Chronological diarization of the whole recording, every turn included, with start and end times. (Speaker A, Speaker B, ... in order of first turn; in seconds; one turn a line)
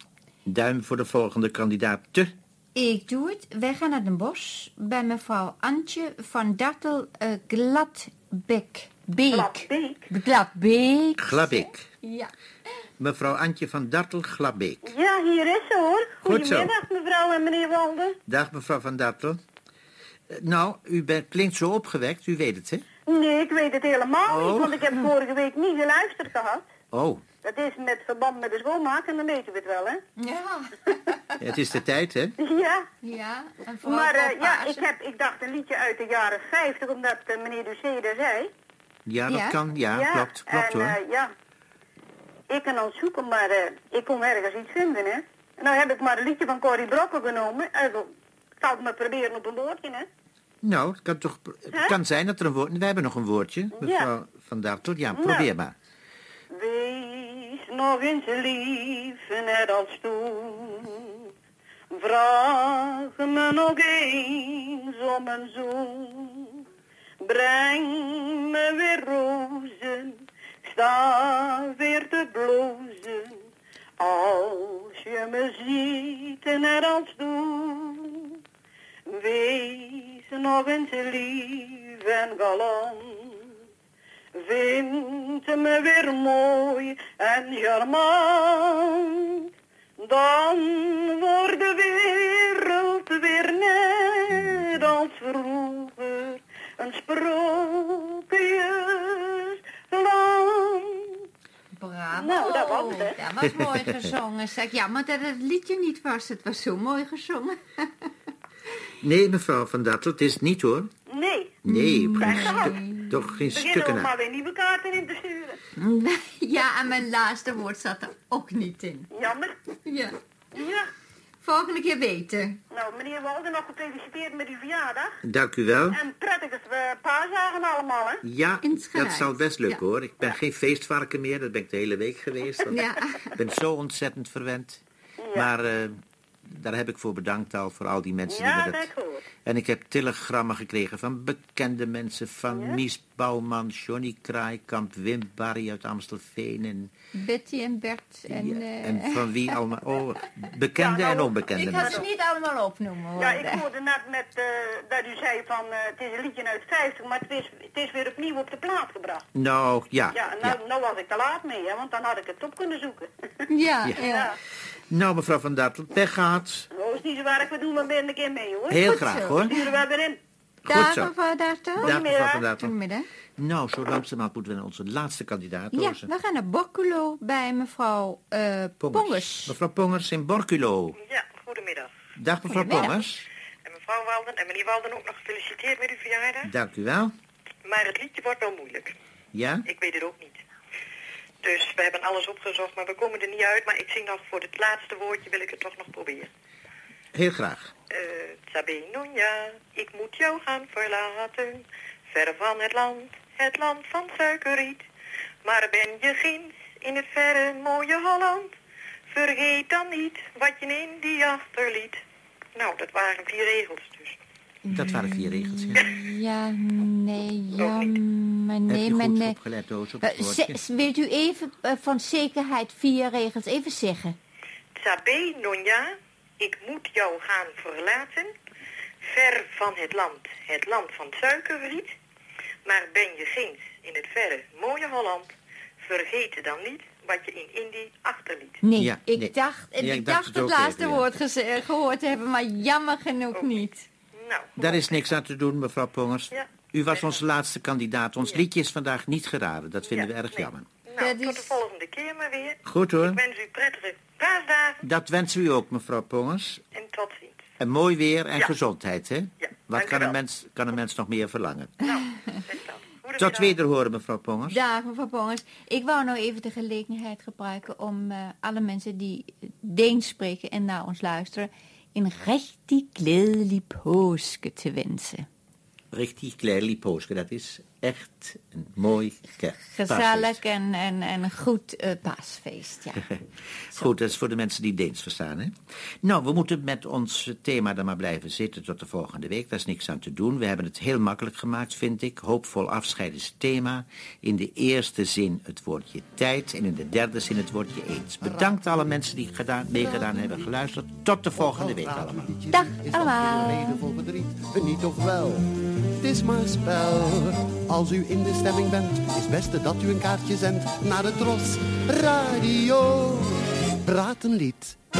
Speaker A: 0.5-2.3
Speaker B: 2.8-12.3
Speaker C: 9.3-10.0
Speaker A: 11.2-11.9
Speaker A: 13.0-14.9
Speaker C: 15.0-18.1
Speaker A: 16.2-16.7
Speaker A: 18.3-19.4
Speaker A: 20.3-22.9
Speaker C: 23.1-26.6
Speaker A: 24.2-25.0
Speaker A: 26.9-27.2
Speaker C: 27.4-30.0
Speaker B: 30.2-30.9
Speaker A: 31.4-32.4
Speaker C: 32.4-32.8
Speaker B: 33.0-34.9
Speaker C: 33.9-38.5
Speaker A: 39.0-41.0
Speaker B: 39.3-39.6
Speaker C: 40.0-41.3
Speaker C: 42.5-48.0
Speaker C: 48.6-50.0
Speaker A: 50.6-55.7
Speaker C: 55.2-55.4
Speaker C: 56.5-61.1
Speaker C: 61.9-66.4
Speaker C: 67.2-73.3
Speaker C: 74.0-78.0
Speaker C: 79.1-83.3
Speaker C: 84.4-88.9
Speaker C: 90.0-100.9
Speaker B: 101.7-107.8
Speaker C: 102.2-103.1
Speaker A: 103.4-104.0
Speaker A: 109.0-110.9
Speaker C: 111.1-111.5
Speaker A: 111.6-114.1
Speaker B: 111.7-113.1
Speaker C: 113.5-115.6
Speaker B: 115.8-119.1
Speaker C: 119.2-119.5
Speaker B: 119.8-120.2
Speaker B: 121.4-122.6
Speaker C: 122.7-125.2
Speaker A: 125.2-126.0
Speaker C: 125.9-128.2
Speaker A: 128.2-134.8
Speaker B: 128.6-129.8
Speaker B: 132.7-133.2
Speaker A: 135.3-138.9
Speaker C: 138.3-139.2
Speaker A: 139.4-146.9
Speaker B: 147.2-149.1
Speaker A: 148.3-152.1
Speaker C: 150.8-151.3
Speaker B: 151.5-153.7
Speaker C: 153.2-159.2
Speaker A: 159.3-160.6
Speaker C: 160.2-163.1
Speaker B: 163.5-164.3
Speaker A: 163.8-164.1
Speaker A: 164.9-166.7
Speaker C: 166.8-168.7
Speaker A: 168.7-169.7
Speaker B: 168.8-169.6
Speaker C: 169.6-170.1
Speaker A: 170.7-171.1
Speaker B: 170.7-172.0
Speaker A: 171.7-172.8
Speaker C: 171.8-172.3
Speaker B: 172.6-173.1
Speaker A: 173.4-176.1
Speaker B: 175.8-179.5
Speaker A: 178.8-180.9
Speaker D: 181.1-181.9
Speaker A: 182.2-183.2
Speaker B: 182.5-183.0
Speaker D: 183.7-186.5
Speaker A: 186.4-187.1
Speaker D: 187.7-188.9
Speaker A: 189.3-189.7
Speaker D: 189.8-190.4
Speaker D: 191.4-196.3
Speaker A: 197.1-197.7
Speaker D: 197.9-204.8
Speaker D: 205.4-208.5
Speaker D: 209.1-212.0
Speaker D: 212.6-214.2
Speaker B: 214.7-219.3
Speaker A: 214.7-215.9
Speaker A: 218.7-220.6
Speaker B: 220.0-224.2
Speaker D: 224.8-228.3
Speaker D: 229.0-231.9
Speaker D: 232.7-235.3
Speaker D: 235.8-238.6
Speaker B: 238.6-243.9
Speaker A: 238.7-241.1
Speaker D: 243.3-243.6
Speaker D: 244.2-244.7
Speaker A: 244.6-250.8
Speaker D: 250.9-252.6
Speaker B: 250.9-251.7
Speaker A: 252.6-253.2
Speaker D: 253.2-254.8
Speaker A: 254.8-256.6
Speaker D: 256.7-257.4
Speaker A: 257.6-261.8
Speaker B: 261.9-262.4
Speaker D: 262.6-263.4
Speaker A: 263.1-264.6
Speaker B: 264.5-275.2
Speaker A: 275.9-280.4
Speaker B: 279.6-283.0
Speaker A: 283.7-302.3
Speaker E: 298.2-299.0
Speaker E: 299.7-300.5
Speaker E: 301.3-314.8
Speaker B: 302.5-303.8